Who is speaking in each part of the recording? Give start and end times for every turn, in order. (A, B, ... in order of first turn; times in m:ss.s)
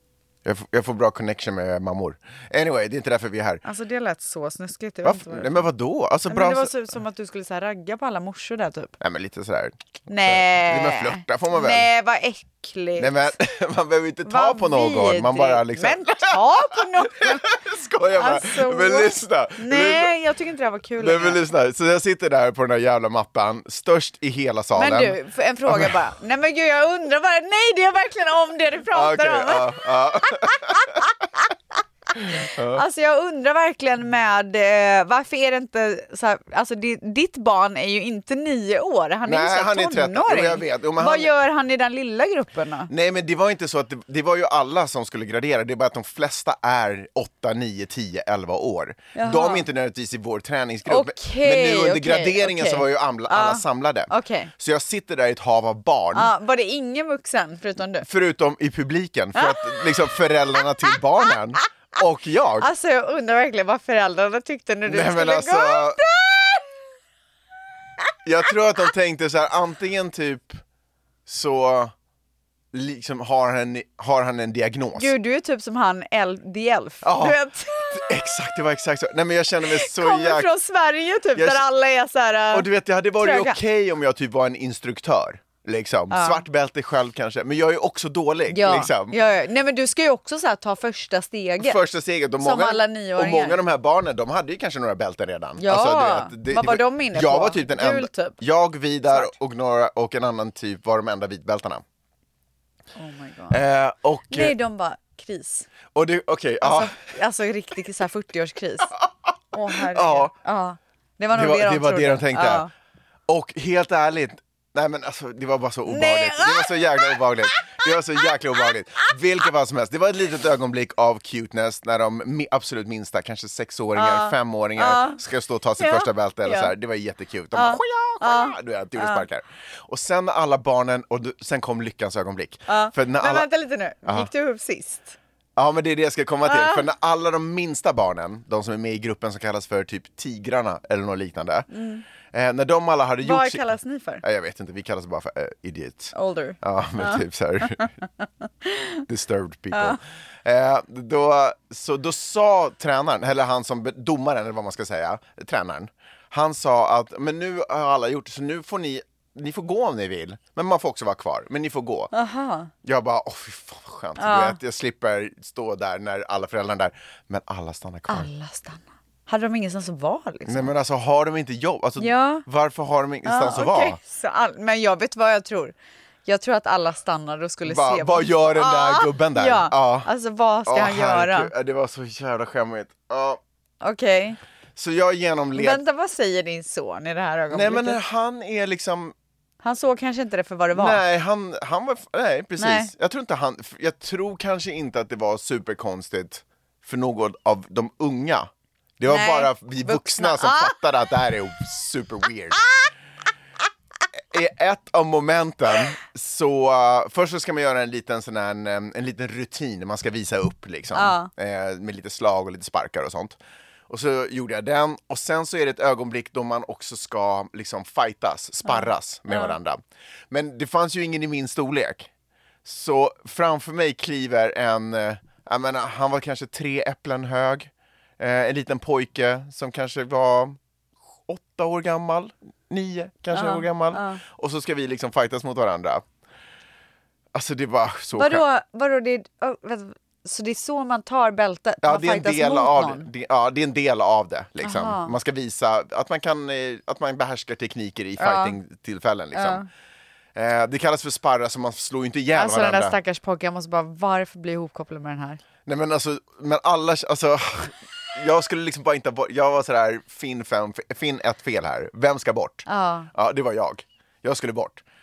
0:00.4-0:03.6 A
0:03.6-0:05.7 B
0:05.0-0:06.7 A
0:06.3-0:09.0 B
0:09.0-0:11.9 A
0:10.1-0:13.3 B
0:13.0-0:20.1 A
0:14.3-0:17.4 B
0:18.2-0:21.4 B
0:21.0-0:25.2 A
0:24.8-0:31.0 B
0:25.7-0:26.0 A
0:28.9-0:31.0 A
0:32.2-0:32.8 A
0:32.7-0:42.9 B
0:39.3-0:41.3 A
0:42.9-0:56.3 A
0:49.2-0:49.7 B
0:50.9-0:54.5 B
0:56.2-0:58.1 B
0:58.0-1:02.7 A
0:59.4-0:59.9 B
1:02.6-1:06.8 B
1:04.9-1:06.0 A
1:08.2-1:10.6 A
1:11.3-1:11.9 A
1:12.7-1:15.1 A
1:15.0-1:18.1 B
1:17.0-1:17.4 A
1:17.9-1:20.5 A
1:19.7-1:22.7 B
1:21.4-1:21.7 A
1:22.5-1:29.2 A
1:23.2-1:23.6 B
1:26.1-1:26.4 B
1:28.5-1:31.8 B
1:31.6-1:41.8 A
1:32.4-1:33.6 B
1:35.6-1:38.4 B
1:39.1-1:39.3 B
1:43.0-1:43.6 B
1:43.5-1:44.6 A
1:44.3-1:45.7 B
1:45.9-1:46.9 A
1:46.6-1:48.9 B
1:49.5-1:52.7 B
1:49.8-1:50.3 A
1:51.3-1:52.7 A
1:53.3-2:13.5 A
1:55.9-1:57.2 B
2:04.0-2:05.2 B
2:05.8-2:06.7 B
2:07.5-2:09.3 B
2:12.7-2:15.2 B
2:15.6-2:21.7 A
2:16.5-2:16.9 B
2:21.7-2:22.0 B
2:22.3-2:23.6 A
2:23.2-2:24.2 B
2:24.2-2:27.9 A
2:26.1-2:27.9 B
2:28.6-2:29.0 B
2:29.1-2:42.1 A
2:29.7-2:30.0 B
2:42.1-2:42.7 B
2:42.8-2:48.3 A
2:44.2-2:44.6 B
2:48.1-2:50.7 B
2:50.5-2:54.0 A
2:52.0-2:52.4 B
2:53.3-2:55.7 B
2:56.3-3:01.5 B
2:57.7-3:00.1 A
3:00.7-3:03.4 A
3:03.8-3:04.4 B
3:04.8-3:05.8 A
3:05.6-3:08.0 B
3:07.5-3:09.1 A
3:09.6-3:11.0 B
3:10.8-3:22.6 A
3:12.6-3:12.9 B
3:19.1-3:20.8 B
3:24.3-3:33.4 A
3:31.0-3:31.3 B
3:33.9-3:42.1 A
3:38.6-3:39.6 B
3:42.6-3:50.6 A
3:51.3-3:56.0 A
3:53.3-3:54.2 B
3:57.3-3:58.4 A
3:58.2-4:03.1 B
4:01.8-4:09.6 A
4:04.6-4:05.1 B
4:08.2-4:08.6 B
4:09.3-4:09.7 B
4:10.4-4:13.0 A
4:12.4-4:15.4 B
4:15.7-4:24.8 A
4:22.7-4:23.1 B